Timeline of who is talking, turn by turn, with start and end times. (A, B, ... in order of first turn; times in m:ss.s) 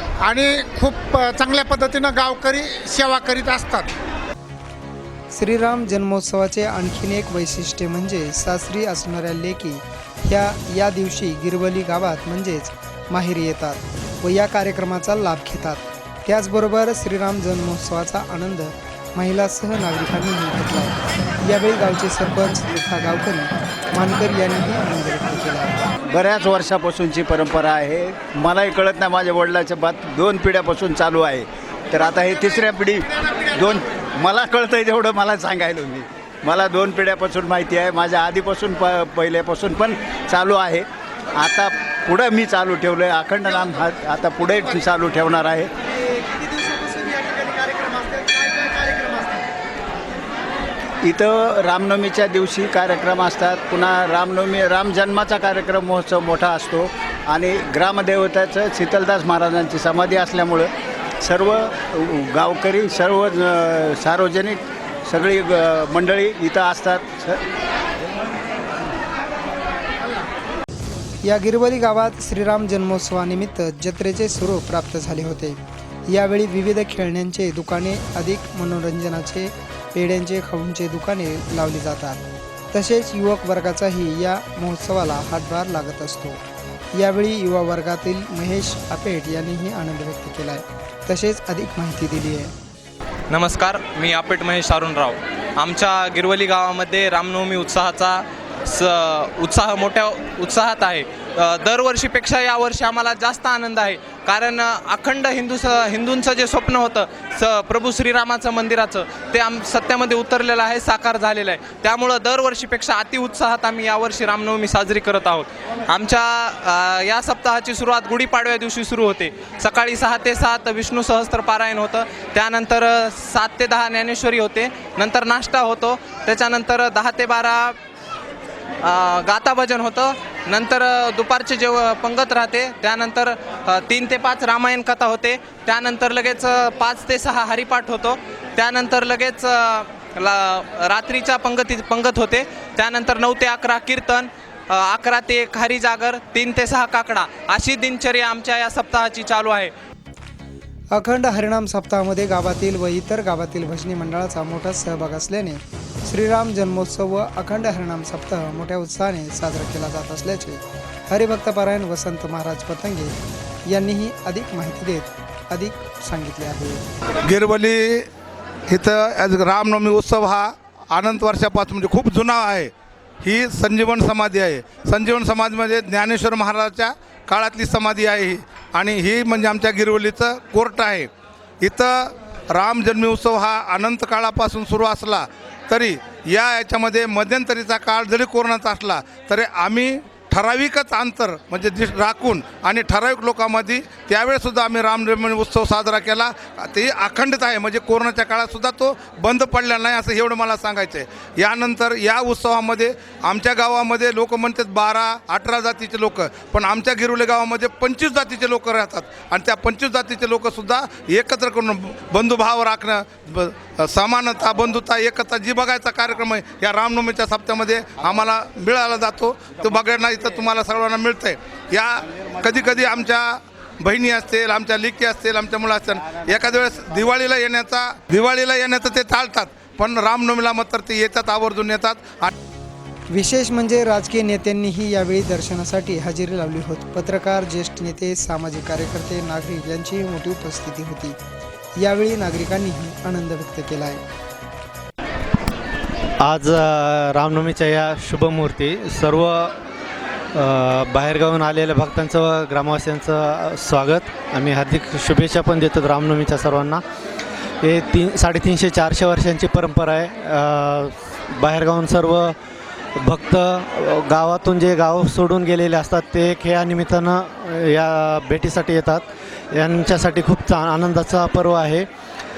0:00.2-0:03.9 A
0:05.3-0:25.8 B
0:26.1-0:45.7 C
0:46.0-0:49.5 B
0:51.0-1:07.4 C
1:11.2-1:26.4 B
1:26.9-1:32.5 B
1:33.3-2:07.8 D
2:08.8-2:29.7 D
2:30.9-2:46.8 B
2:47.2-2:48.1 E
2:48.7-3:01.1 E
3:01.6-3:52.3 E
3:53.1-4:01.2 B
4:01.8-4:04.0 B
4:06.2-4:09.6 F
4:10.3-4:16.8 F
4:17.6-4:22.4 F
4:23.0-4:31.9 F